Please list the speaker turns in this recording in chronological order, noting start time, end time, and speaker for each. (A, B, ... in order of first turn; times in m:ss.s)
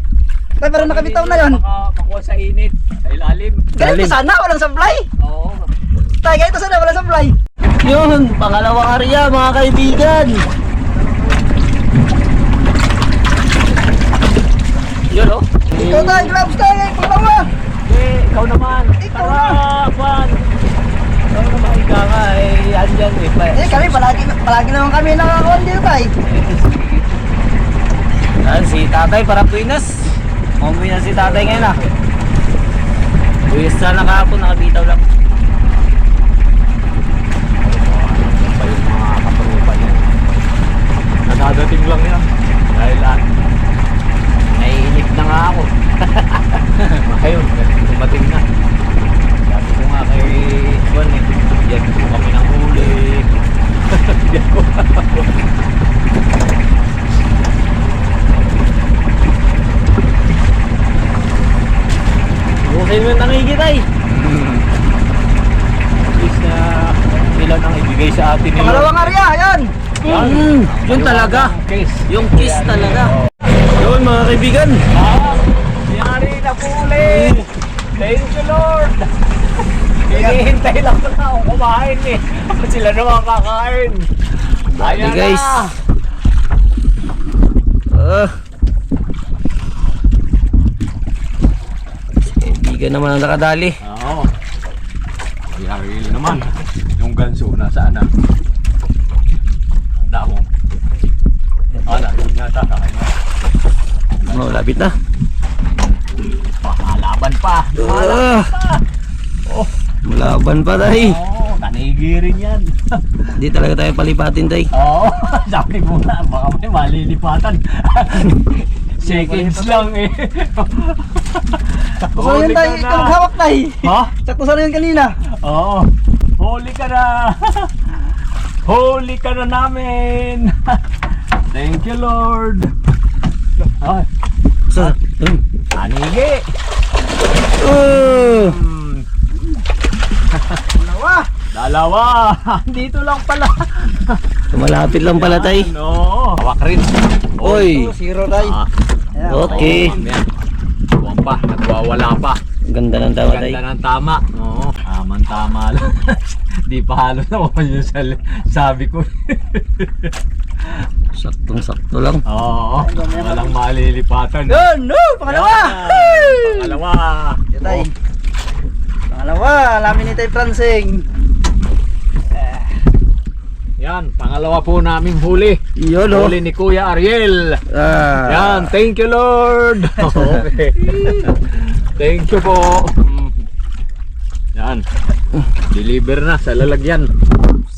0:00.6-0:01.6 A
0:00.7-0:03.7 B
0:03.7-0:05.1 A
0:03.8-0:04.2 C
0:05.2-0:05.7 B
0:06.2-0:07.4 A
0:07.8-0:10.4 C
0:10.9-0:11.4 A
0:15.1-0:16.3 C
0:15.7-0:17.5 A
0:17.8-0:20.4 B
0:19.0-0:19.6 A
0:21.4-0:23.6 B
0:21.6-0:23.0 C
0:23.5-0:26.1 A
0:26.2-0:27.0 B
0:28.4-0:31.8 C
0:31.1-0:31.9 B
0:33.4-0:35.0 C
0:37.6-0:40.2 B
0:41.3-0:43.2 B
0:44.5-0:48.4 B
0:49.4-0:53.3 B
0:53.9-0:55.3 B
1:02.6-1:03.9 C
1:04.1-1:04.6 B
1:06.1-1:09.1 B
1:08.6-1:09.7 A
1:10.0-1:13.3 B
1:10.0-1:11.5 C
1:12.1-1:13.1 C
1:13.8-1:14.8 C
1:14.9-1:19.1 B
1:20.0-1:24.1 B
1:20.1-1:20.4 A
1:24.7-1:25.6 C
1:24.7-1:25.7 B
1:27.9-1:28.4 C
1:32.2-1:33.7 C
1:33.8-1:34.3 B
1:35.6-1:38.1 B
1:40.0-1:40.4 B
1:41.8-1:43.1 B
1:44.2-1:44.6 B
1:44.2-1:44.9 C
1:46.6-1:48.8 B
1:47.8-1:48.5 C
1:49.5-1:49.7 B
1:50.0-1:51.2 C
1:50.9-1:53.2 B
1:53.4-1:54.7 C
1:54.7-2:03.2 B
1:59.0-1:59.9 A
2:02.1-2:05.1 A
2:03.8-2:04.1 B
2:05.4-2:08.0 B
2:08.6-2:10.8 B
2:11.5-2:12.7 B
2:13.6-2:14.1 B
2:14.7-2:15.4 C
2:15.8-2:16.4 B
2:17.6-2:18.6 C
2:17.9-2:19.0 B
2:20.3-2:20.6 B
2:20.7-2:21.3 A
2:21.5-2:24.2 B
2:24.5-2:25.7 C
2:25.1-2:27.8 B
2:27.4-2:28.6 A
2:27.4-2:27.9 C
2:28.3-2:28.7 B
2:29.2-2:30.0 A
2:29.3-2:30.0 C
2:29.4-2:30.3 B
2:31.0-2:32.4 B
2:32.7-2:33.6 C
2:33.2-2:40.1 B
2:41.1-2:42.2 C
2:42.3-2:44.7 B
2:42.8-2:43.6 A
2:44.5-2:46.8 A
2:45.2-2:47.8 B
2:47.5-2:47.9 A
2:49.1-2:51.0 A
2:53.8-2:57.6 B
2:55.8-2:56.4 C
2:57.7-2:58.7 C
2:58.2-3:03.3 B
3:00.0-3:00.4 C
3:04.6-3:04.8 B
3:05.7-3:07.1 B